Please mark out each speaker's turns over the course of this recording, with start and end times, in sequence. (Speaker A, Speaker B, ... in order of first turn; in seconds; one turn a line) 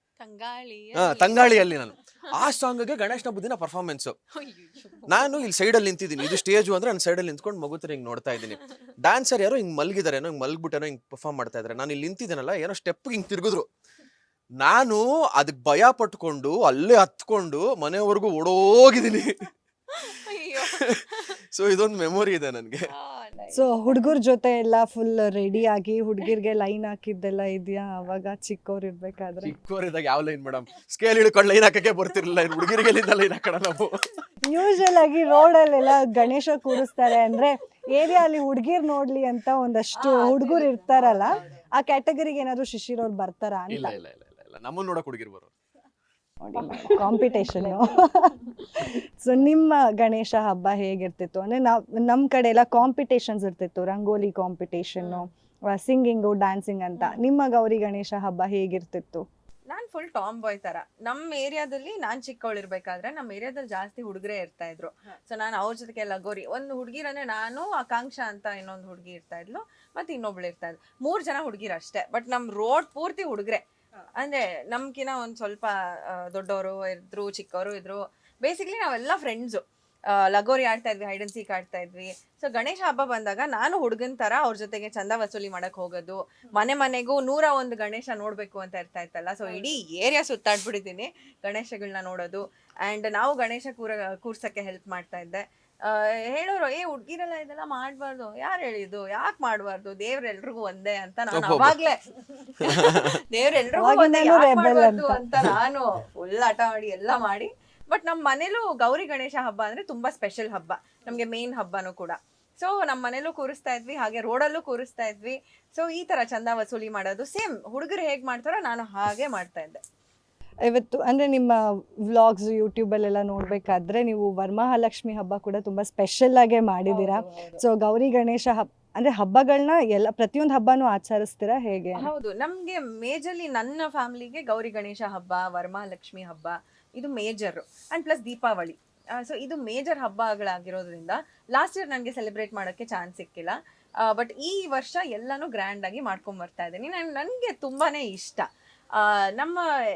Speaker A: 0.2-1.8
Speaker B: 0.9-4.2
Speaker A: 4.4-5.4
Speaker B: 5.1-13.7
Speaker B: 14.6-19.4
Speaker A: 19.9-21.4
Speaker B: 20.6-21.0
Speaker B: 21.5-22.8
Speaker A: 22.9-24.1
Speaker C: 23.5-29.5
Speaker B: 29.4-34.0
Speaker C: 34.5-44.0
Speaker A: 40.0-41.6
Speaker B: 43.7-45.5
Speaker C: 46.4-59.2
Speaker A: 46.5-48.9
Speaker A: 55.0-55.3
Speaker A: 59.7-73.6
Speaker A: 74.2-119.8
Speaker B: 101.3-101.8
Speaker B: 102.6-103.2
Speaker C: 103.8-105.2
Speaker C: 120.7-132.1
Speaker A: 126.9-127.6
Speaker A: 131.9-149.6